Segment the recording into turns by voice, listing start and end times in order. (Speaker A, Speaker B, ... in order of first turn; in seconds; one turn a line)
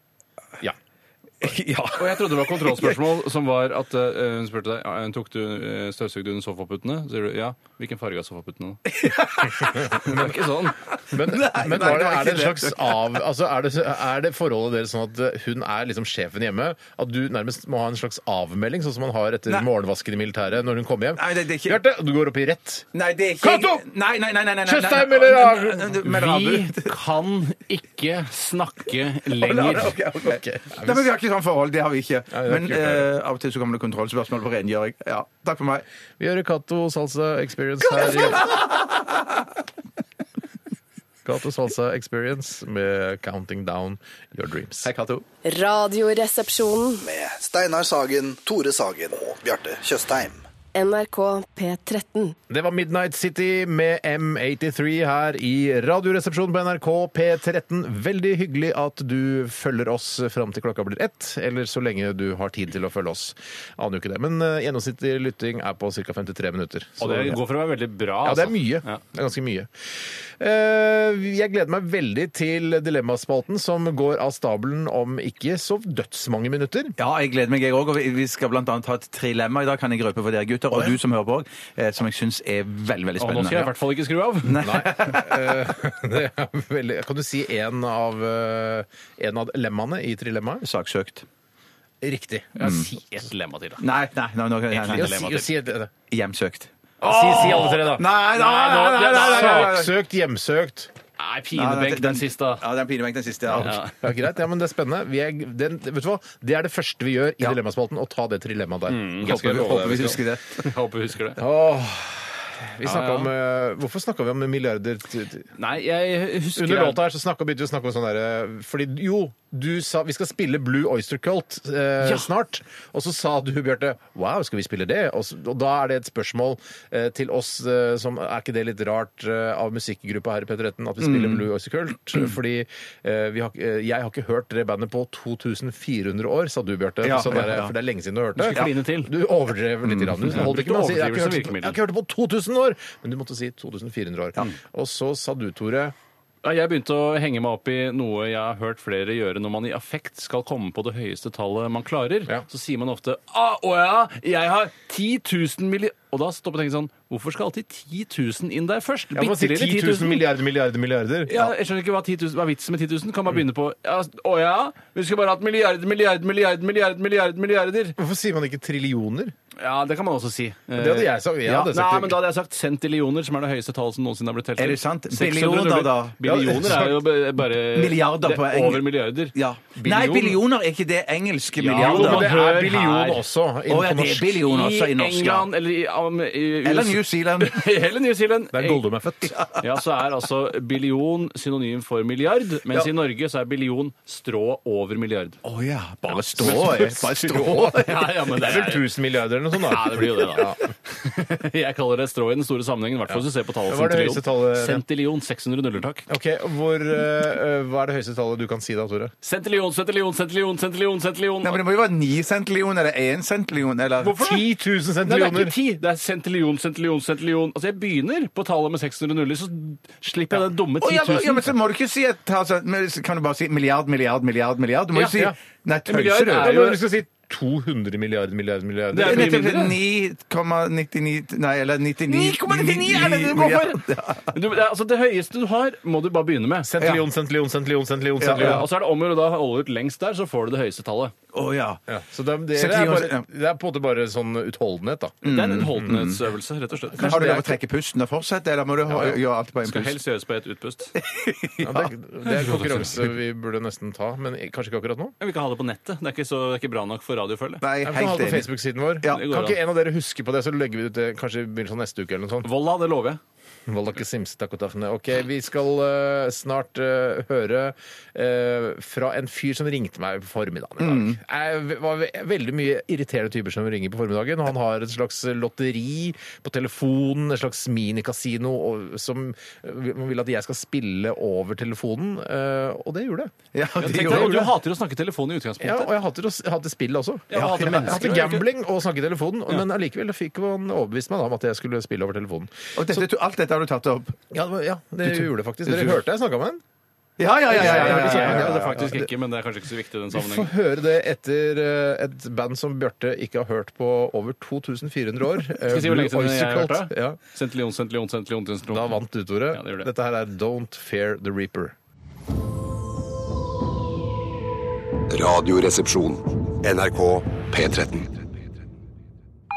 Speaker A: 1.4-3.0
Speaker B: 2.0-8.8
Speaker A: 8.9-10.2
Speaker B: 9.7-10.8
Speaker C: 9.9-10.2
Speaker A: 11.1-13.2
Speaker C: 11.1-22.9
Speaker A: 21.1-21.8
Speaker A: 22.9-26.9
Speaker C: 23.4-23.8
Speaker C: 24.6-25.9
Speaker B: 25.9-30.0
Speaker A: 29.3-35.8
Speaker C: 30.2-31.1
Speaker C: 32.3-33.1
Speaker C: 36.2-38.6
Speaker A: 37.9-39.2
Speaker C: 41.2-44.9
Speaker A: 44.8-45.2
Speaker D: 45.4-47.0
Speaker E: 47.0-50.4
Speaker D: 50.7-52.4
Speaker C: 52.5-67.4
Speaker B: 67.0-69.0
Speaker C: 68.2-77.0
Speaker A: 77.0-83.7
Speaker B: 83.2-84.9
Speaker A: 84.4-85.3
Speaker C: 84.6-90.6
Speaker A: 90.6-91.2
Speaker C: 92.0-92.9
Speaker B: 92.5-93.9
Speaker A: 93.8-95.3
Speaker B: 94.7-95.5
Speaker C: 94.9-95.9
Speaker A: 96.1-99.9
Speaker C: 97.0-100.9
Speaker B: 97.3-97.8
Speaker B: 98.4-99.8
Speaker B: 101.2-102.6
Speaker A: 101.5-103.8
Speaker B: 103.5-104.0
Speaker C: 103.5-110.2
Speaker B: 108.9-111.4
Speaker A: 109.2-110.7
Speaker C: 111.4-115.5
Speaker B: 112.8-113.3
Speaker B: 115.6-117.0
Speaker C: 116.5-145.9
Speaker A: 131.0-131.5
Speaker A: 137.0-137.7
Speaker B: 138.4-139.1
Speaker B: 140.3-141.8
Speaker B: 146.4-160.2
Speaker C: 159.1-161.4
Speaker B: 161.2-168.0
Speaker C: 168.0-169.3
Speaker B: 169.6-180.3
Speaker C: 170.7-172.2
Speaker A: 174.6-176.5
Speaker C: 176.2-177.0
Speaker A: 177.7-182.3
Speaker C: 179.8-180.3
Speaker B: 181.6-183.2
Speaker C: 181.7-184.4
Speaker A: 183.7-185.5
Speaker B: 184.4-188.8
Speaker A: 186.6-187.7
Speaker C: 188.5-189.4
Speaker A: 189.3-189.6
Speaker B: 189.6-195.4
Speaker A: 195.4-198.2
Speaker C: 196.4-197.0
Speaker B: 196.4-198.9
Speaker C: 198.3-200.6
Speaker B: 199.5-206.1
Speaker C: 203.1-204.8
Speaker C: 206.1-209.1
Speaker B: 209.2-211.6
Speaker A: 211.4-214.3
Speaker B: 214.0-214.4
Speaker C: 214.1-215.5
Speaker B: 215.0-221.5
Speaker A: 220.8-226.6
Speaker B: 224.9-225.3
Speaker B: 225.9-226.8
Speaker C: 226.0-229.3
Speaker B: 228.9-229.8
Speaker A: 229.0-234.3
Speaker B: 232.1-236.7
Speaker C: 236.6-238.6
Speaker A: 238.2-238.6
Speaker B: 238.2-241.1
Speaker A: 241.3-241.8
Speaker C: 241.9-245.9
Speaker A: 242.5-243.3
Speaker B: 245.2-247.4
Speaker A: 245.2-246.2
Speaker C: 246.9-247.5
Speaker A: 247.0-250.0
Speaker C: 248.9-249.2
Speaker B: 249.6-250.9
Speaker A: 250.9-251.9
Speaker C: 251.6-255.1
Speaker B: 252.5-252.8
Speaker B: 255.2-257.6
Speaker A: 257.6-258.5
Speaker C: 257.8-262.5
Speaker B: 259.1-259.6
Speaker B: 262.4-263.2
Speaker C: 263.7-283.3
Speaker A: 270.8-271.2
Speaker A: 283.5-284.5
Speaker B: 283.8-285.9
Speaker C: 283.9-284.5
Speaker C: 285.6-293.0
Speaker B: 287.3-288.4
Speaker A: 287.3-288.1
Speaker A: 292.7-294.2
Speaker C: 294.3-296.6
Speaker A: 295.1-296.0
Speaker A: 297.2-298.5
Speaker C: 297.5-299.1
Speaker B: 297.5-300.5
Speaker C: 300.1-307.2
Speaker B: 305.5-309.9
Speaker C: 308.7-311.7
Speaker F: 315.1-318.2